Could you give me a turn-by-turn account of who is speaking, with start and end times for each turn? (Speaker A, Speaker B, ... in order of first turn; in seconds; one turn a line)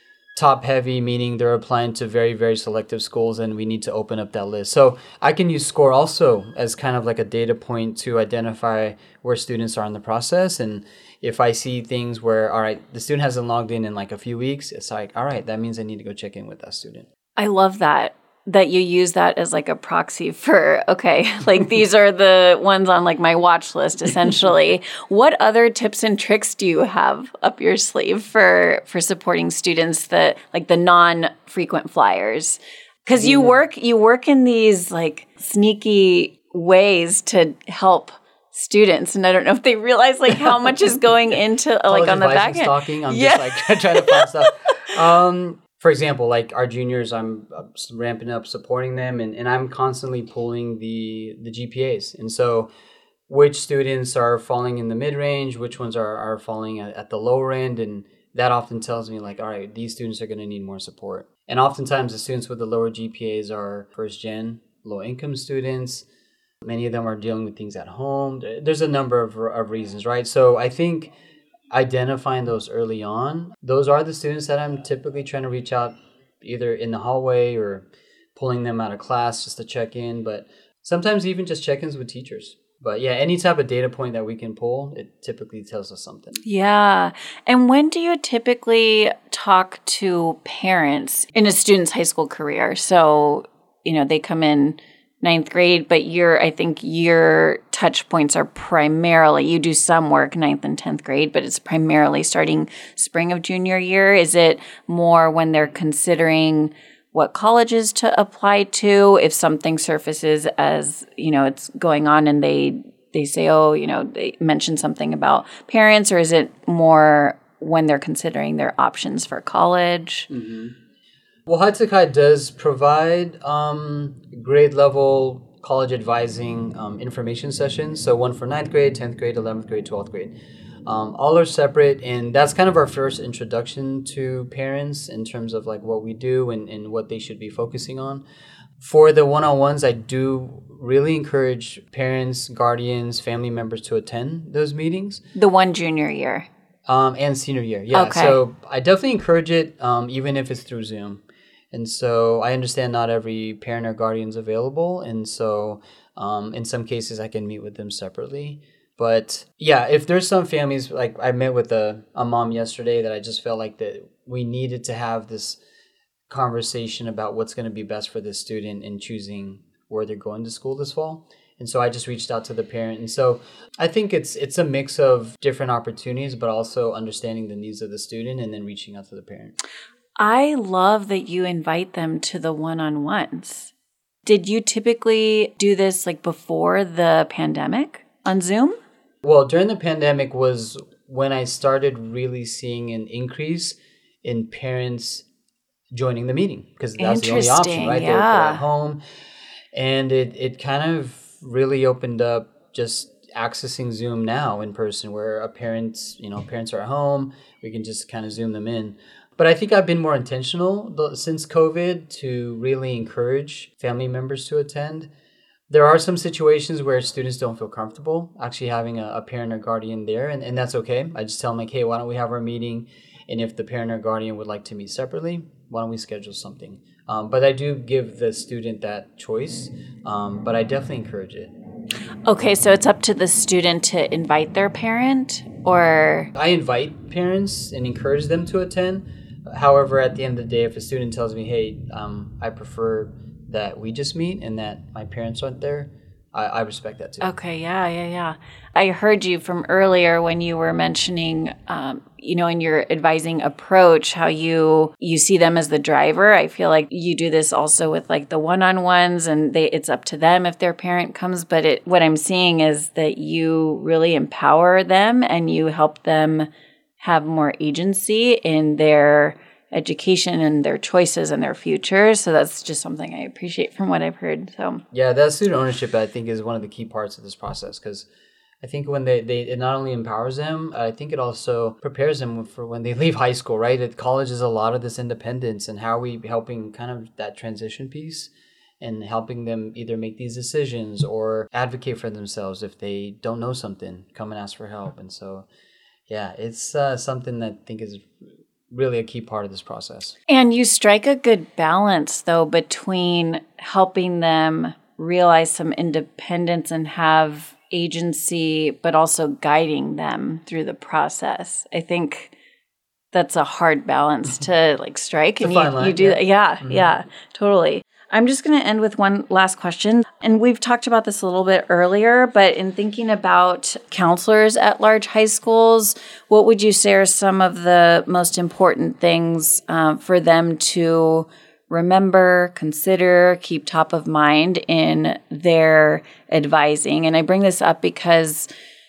Speaker A: 0.3-17.1
Speaker B: 17.4-44.5
Speaker A: 33.2-33.5
Speaker A: 41.9-52.7
Speaker A: 53.3-66.0
Speaker A: 66.6-71.1
Speaker A: 71.7-86.4
Speaker B: 86.5-120.3
Speaker A: 120.3-120.7
Speaker A: 121.5-130.3
Speaker A: 130.9-138.2
Speaker A: 138.8-145.2
Speaker B: 145.3-146.5
Speaker A: 146.9-165.6
Speaker B: 147.9-148.4
Speaker A: 166.3-179.6
Speaker B: 180.2-183.7
Speaker B: 184.2-188.8
Speaker A: 189.2-195.2
Speaker A: 195.9-199.0
Speaker B: 197.0-198.6
Speaker A: 199.7-215.1
Speaker A: 215.7-231.5
Speaker B: 232.3-236.3
Speaker A: 236.3-247.3
Speaker B: 247.2-266.5
Speaker B: 267.0-274.8
Speaker A: 274.9-278.1
Speaker A: 278.6-295.4
Speaker A: 296.1-298.1
Speaker A: 298.7-300.1
Speaker B: 300.3-312.3
Speaker B: 313.1-338.5
Speaker A: 315.4-316.8